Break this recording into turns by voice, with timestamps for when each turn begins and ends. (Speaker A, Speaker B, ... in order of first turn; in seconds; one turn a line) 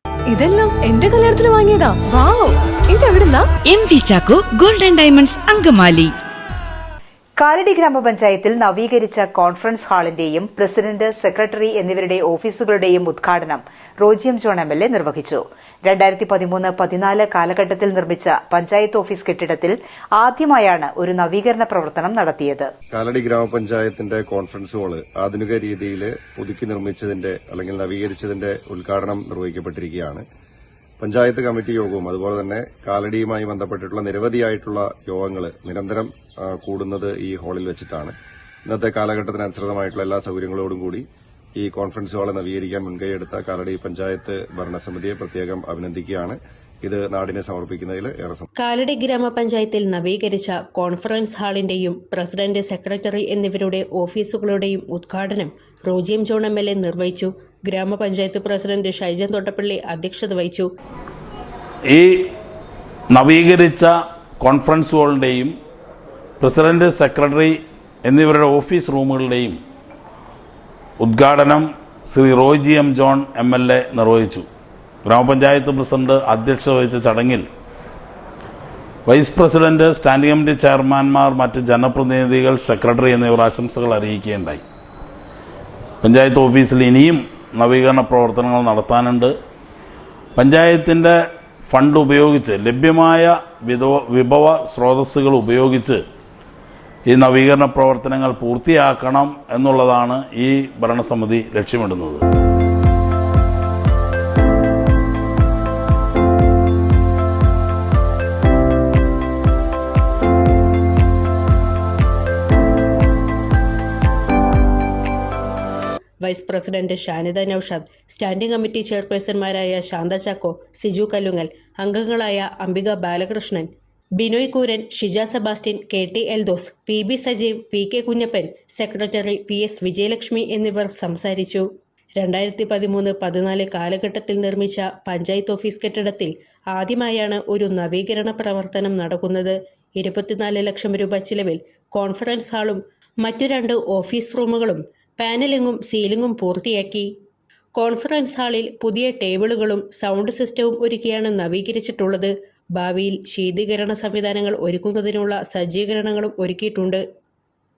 Speaker A: 0.3-3.5
Speaker B: 3.7-6.1
Speaker C: 7.4-22.7
Speaker D: 22.9-30.2
Speaker D: 31.0-38.1
Speaker D: 38.7-41.0
Speaker D: 41.6-48.5
Speaker E: 48.6-60.7
Speaker F: 61.9-62.2
Speaker F: 63.1-65.5
Speaker F: 66.4-69.6
Speaker F: 71.0-74.5
Speaker F: 75.1-77.5
Speaker F: 79.1-84.6
Speaker F: 86.0-89.3
Speaker F: 90.4-96.0
Speaker F: 97.1-102.2
Speaker E: 116.2-131.7
Speaker E: 132.2-147.1
Speaker E: 147.8-157.0